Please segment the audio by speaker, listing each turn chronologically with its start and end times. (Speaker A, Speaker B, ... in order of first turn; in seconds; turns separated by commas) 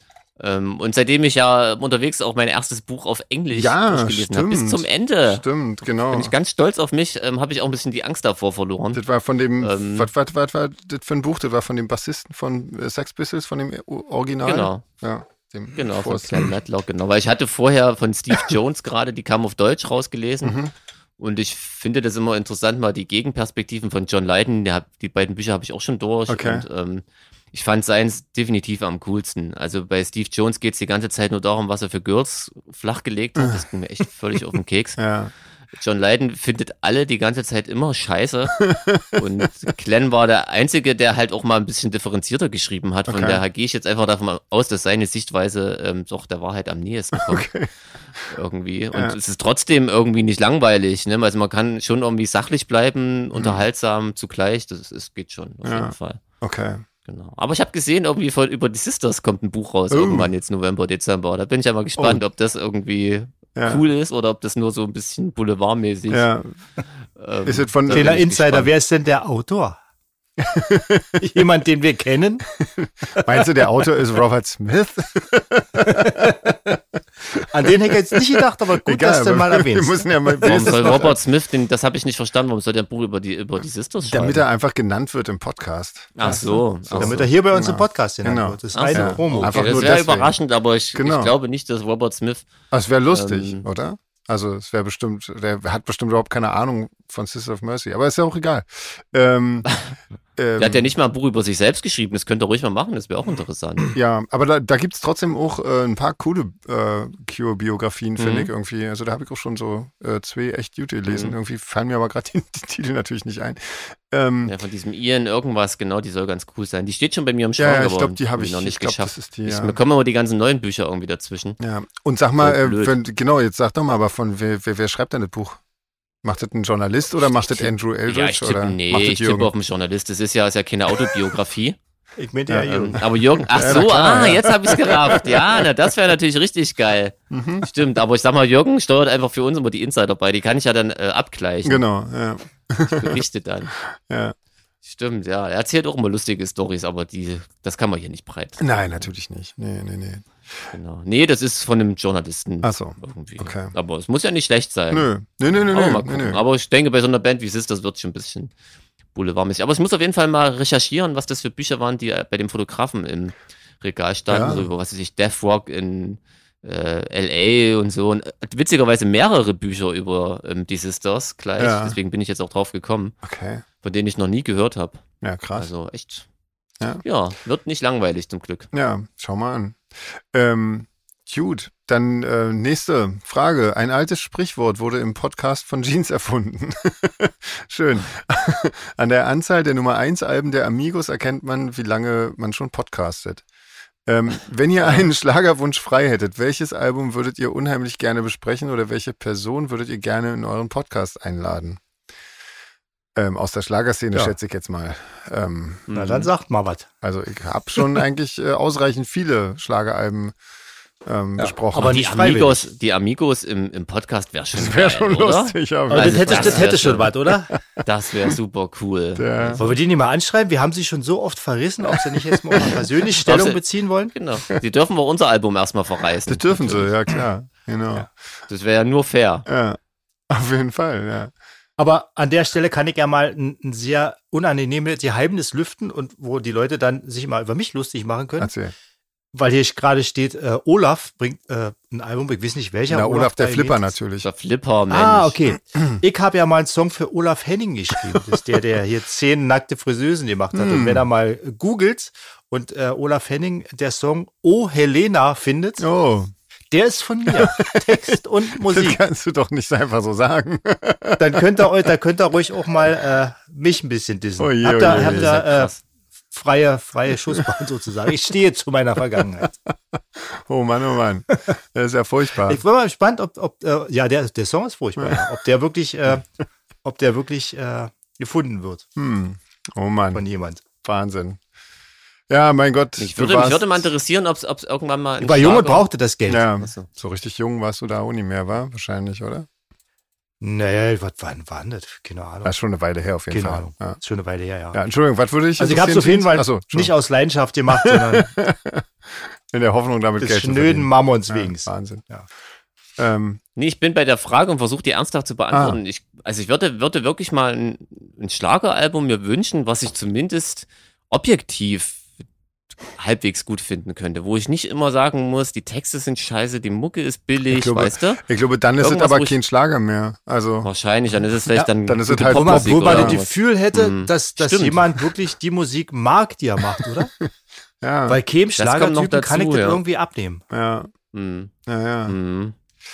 Speaker A: 0.4-5.4, Speaker B: 3.5-6.3, Speaker A: 6.1-9.0, Speaker B: 8.9-16.6, Speaker A: 9.6-10.1, Speaker A: 14.4-14.8, Speaker A: 15.8-20.6, Speaker B: 20.4-20.7, Speaker A: 21.2-35.0, Speaker B: 26.3-26.6, Speaker B: 35.0-35.3, Speaker A: 35.7-38.6, Speaker B: 38.6-39.7, Speaker A: 39.2-47.5, Speaker B: 43.1-43.4, Speaker B: 47.1-47.7, Speaker A: 48.3-56.2, Speaker B: 53.3-53.6, Speaker B: 55.6-56.9, Speaker A: 57.1-66.3, Speaker B: 59.9-60.3, Speaker B: 63.6-63.8, Speaker B: 66.1-66.5, Speaker A: 67.2-68.7, Speaker B: 67.5-68.2, Speaker C: 67.9-69.8, Speaker B: 70.4-71.2, Speaker C: 71.2-72.5, Speaker B: 72.7-76.5, Speaker C: 75.8-76.8, Speaker B: 77.3-81.2, Speaker C: 77.4-80.9, Speaker A: 80.4-84.5, Speaker B: 84.0-90.3, Speaker A: 86.2-87.3, Speaker C: 87.0-89.9, Speaker A: 88.7-92.5, Speaker B: 90.9-91.3, Speaker B: 92.7-99.7, Speaker A: 93.1-93.7, Speaker B: 100.4-100.9, Speaker A: 100.6-103.9, Speaker B: 103.9-114.5, Speaker A: 108.2-108.5, Speaker A: 111.1-111.3, Speaker A: 114.5-121.6, Speaker B: 117.6-119.8, Speaker B: 121.6-125.6, Speaker A: 122.4-123.0, Speaker B: 126.2-129.5, Speaker A: 127.3-131.8, Speaker C: 132.2-133.0, Speaker A: 132.7-141.8, Speaker B: 133.4-135.9, Speaker B: 137.3-137.7, Speaker B: 141.6-143.2, Speaker A: 142.9-143.7, Speaker B: 143.8-144.3, Speaker A: 144.8-149.0, Speaker B: 148.6-150.3, Speaker A: 150.7-158.5, Speaker B: 152.6-153.7, Speaker B: 154.9-156.4, Speaker A: 159.2-173.2, Speaker B: 164.3-164.7, Speaker B: 171.6-172.0, Speaker B: 173.2-173.6, Speaker A: 173.8-175.0, Speaker B: 175.2-175.7, Speaker A: 175.6-176.2, Speaker A: 177.0-178.7, Speaker B: 178.7-193.4, Speaker B: 194.1-201.8, Speaker B: 203.2-205.9, Speaker A: 205.9-206.3, Speaker C: 205.9-206.9, Speaker B: 207.0-210.3, Speaker B: 211.1-212.0, Speaker C: 211.4-212.7, Speaker A: 211.8-217.2, Speaker B: 214.5-217.6, Speaker C: 215.9-217.5, Speaker A: 217.8-219.8, Speaker B: 219.2-219.6, Speaker C: 219.6-224.1, Speaker B: 221.9-222.8, Speaker A: 223.2-223.6, Speaker A: 224.1-227.0, Speaker B: 226.3-228.1, Speaker A: 228.5-229.5, Speaker B: 229.5-229.8, Speaker B: 230.3-231.3, Speaker C: 231.8-238.5, Speaker B: 238.4-238.7, Speaker C: 239.3-243.9, Speaker B: 242.9-244.3, Speaker A: 244.2-245.4, Speaker C: 244.9-255.9, Speaker B: 250.5-251.1, Speaker B: 255.8-256.3, Speaker C: 256.7-259.0, Speaker B: 257.3-261.4, Speaker C: 261.2-265.7, Speaker B: 264.4-265.4, Speaker A: 264.8-265.8, Speaker C: 266.3-269.5, Speaker B: 269.7-272.6, Speaker C: 272.5-276.3, Speaker C: 276.8-278.9, Speaker B: 279.0-280.2, Speaker C: 280.1-280.6, Speaker B: 280.8-281.4, Speaker B: 282.3-283.9, Speaker A: 283.0-285.9, Speaker C: 285.2-286.5, Speaker B: 286.3-289.5, Speaker A: 286.6-286.9, Speaker C: 290.4-292.5, Speaker B: 292.4-294.0, Speaker C: 293.3-294.8, Speaker B: 294.7-296.9, Speaker C: 295.6-298.3, Speaker B: 297.7-302.0, Speaker C: 300.2-302.2, Speaker B: 303.0-303.4, Speaker A: 303.6-312.0, Speaker B: 305.5-305.8, Speaker A: 313.0-318.2, Speaker B: 317.5-320.7, Speaker A: 318.8-319.4, Speaker A: 320.6-324.9, Speaker C: 321.5-327.1, Speaker B: 321.9-323.2, Speaker B: 326.8-327.3, Speaker B: 327.8-328.2, Speaker C: 328.1-330.4, Speaker A: 328.6-329.8, Speaker B: 330.5-330.9, Speaker A: 331.1-331.5, Speaker B: 331.7-332.2, Speaker A: 332.1-332.6